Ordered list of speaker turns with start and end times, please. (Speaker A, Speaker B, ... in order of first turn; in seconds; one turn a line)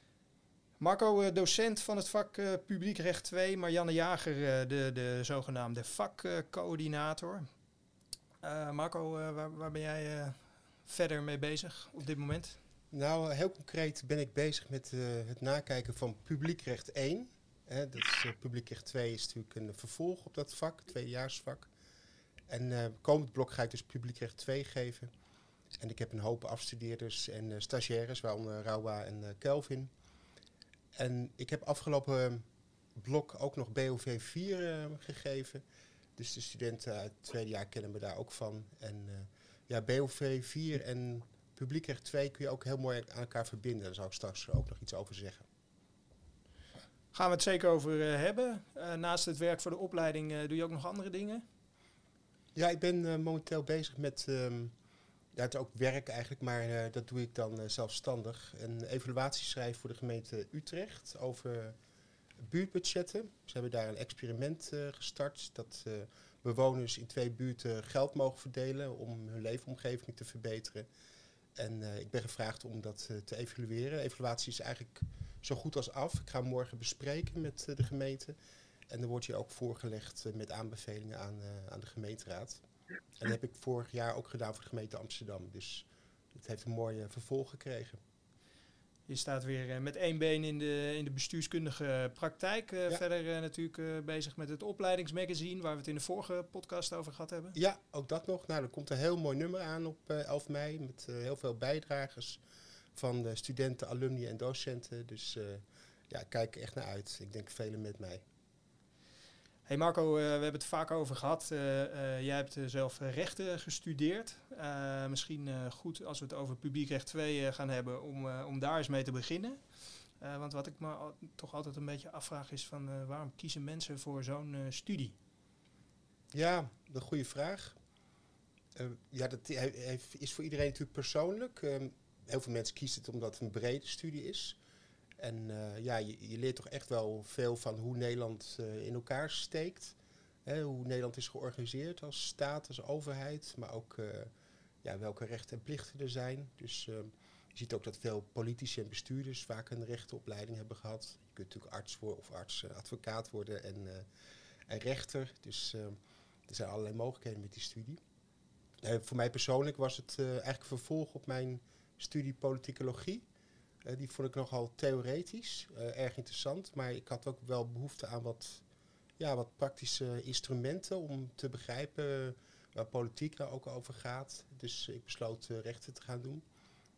Speaker A: 0.8-7.5
Speaker A: 8.4-12.6
Speaker B: 12.9-21.7
Speaker B: 22.5-25.1
Speaker B: 25.8-29.9
Speaker B: 30.9-32.5
Speaker B: 33.0-35.6
Speaker B: 36.2-45.5
Speaker A: 47.1-51.4
Speaker B: 52.5-54.7
Speaker B: 55.3-61.8
Speaker B: 62.4-70.9
Speaker B: 71.6-78.4
Speaker B: 78.9-82.6
Speaker B: 83.2-88.0
Speaker A: 89.1-97.5
Speaker B: 97.5-102.4
Speaker B: 102.9-108.2
Speaker A: 109.7-119.7
Speaker A: 120.2-125.1
Speaker B: 126.3-127.8
Speaker B: 128.8-134.6
Speaker B: 135.2-144.3
Speaker B: 144.8-154.1
Speaker B: 154.7-155.9
Speaker B: 156.5-158.0
Speaker B: 158.8-163.2
Speaker B: 163.8-168.6
Speaker B: 169.2-176.4